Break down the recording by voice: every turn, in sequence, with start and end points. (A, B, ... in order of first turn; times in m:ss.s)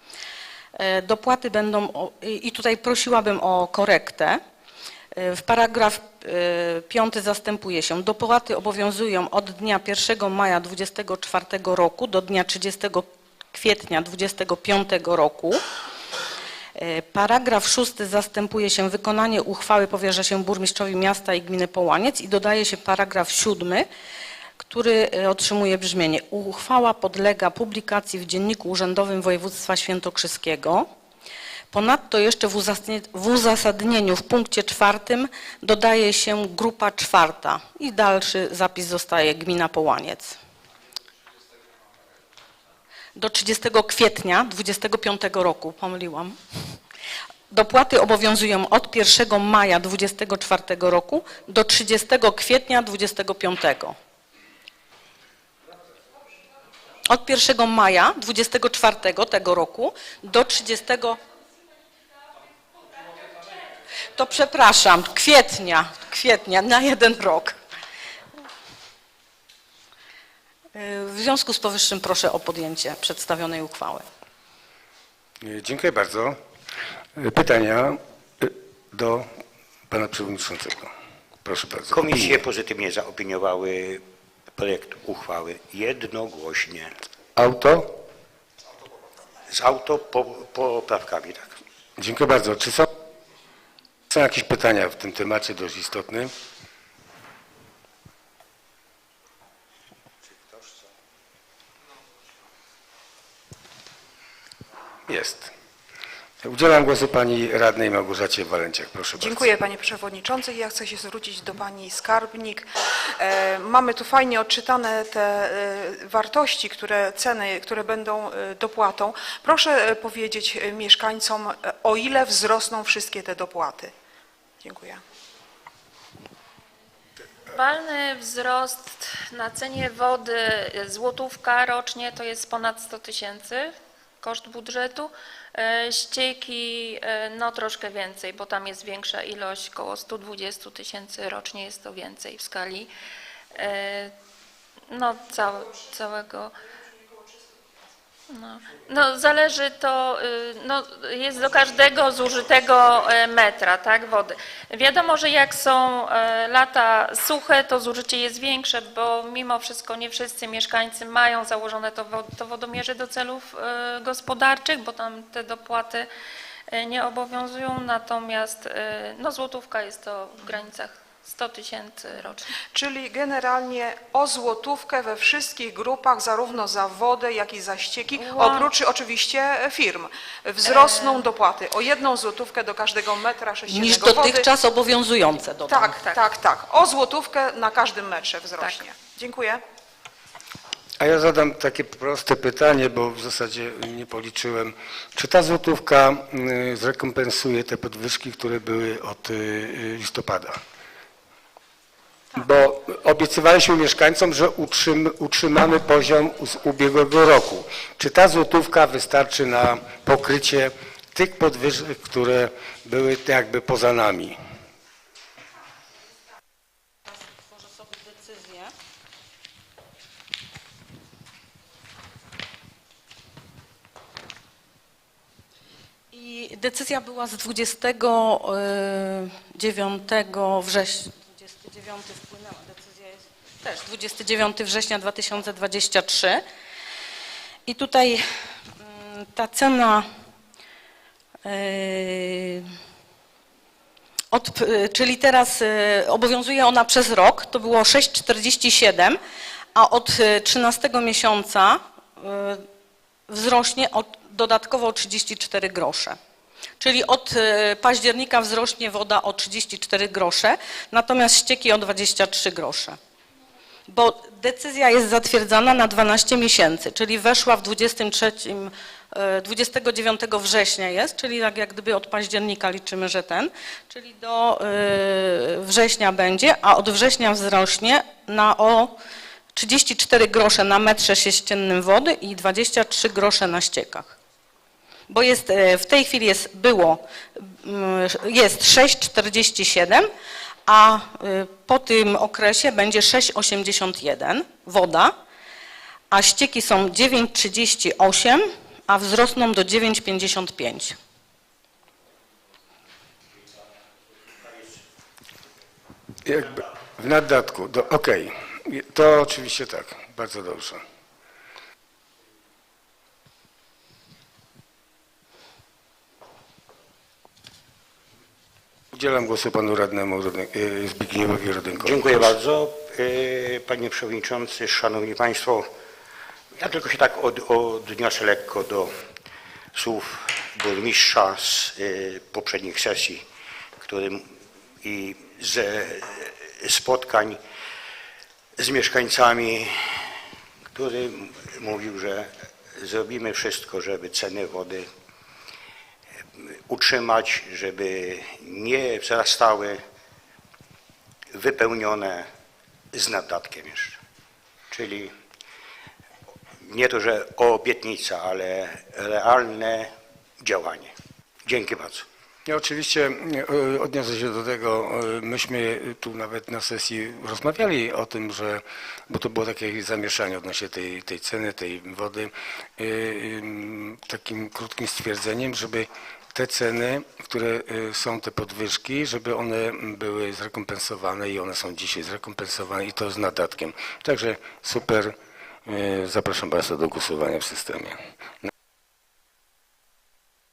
0:00.8-0:04.4 A
0:05.1-0:15.6 A
0:16.8-0:23.9 A
0:24.6-0:30.9 A
0:31.7-0:40.4 A
0:43.2-0:46.4 A
0:47.5-0:54.0 A
0:57.1-1:01.2 A
1:04.1-1:07.6 A
1:10.7-1:14.1 A
1:15.4-1:16.4 B
1:17.2-1:19.3 B
1:19.9-1:20.9 B
1:21.4-1:22.4 B
1:21.9-1:26.9 C
1:27.4-1:28.0 B
1:29.5-1:31.6 C
1:32.0-1:32.9 B
1:34.1-1:36.3 B
1:45.1-1:45.5 B
1:46.4-1:49.5 B
1:49.2-2:03.9 D
2:04.6-2:05.0 D
2:07.5-2:22.9 E
2:23.5-2:24.1 E
2:24.9-2:26.5 E
2:28.3-2:46.1 E
2:46.7-2:52.5 E
2:52.7-3:04.5 D
2:58.2-2:58.7 E
3:00.7-3:01.2 E
3:03.7-3:06.0 A
3:05.7-3:09.6 D
3:11.0-3:20.6 B
3:22.3-3:34.4 B
3:37.2-3:38.7 A
3:46.1-3:56.4 A
3:57.7-3:58.2 A
3:58.8-4:00.1 A
4:01.4-4:02.7 A
4:04.3-4:09.2 A
4:09.7-4:12.6 A
4:13.3-4:16.2 A
4:16.8-4:23.0 A
4:23.9-4:38.9 A
4:39.5-4:44.1 A
4:45.1-4:50.1 A
4:50.7-4:55.1 A
4:56.1-5:01.0 A
5:06.2-5:10.8 B
5:18.9-5:22.3 B
5:21.8-5:25.7 C
5:26.6-5:28.9 C
5:29.7-5:33.2 C
5:33.8-5:37.4 C
5:38.6-5:40.0 C
5:40.7-5:44.9 C
5:46.4-5:49.8 C
5:51.3-5:52.3 C
5:52.9-5:54.0 C
5:54.7-5:55.1 C
5:56.6-6:00.9 C
6:01.4-6:02.0 C
6:02.4-6:28.0 B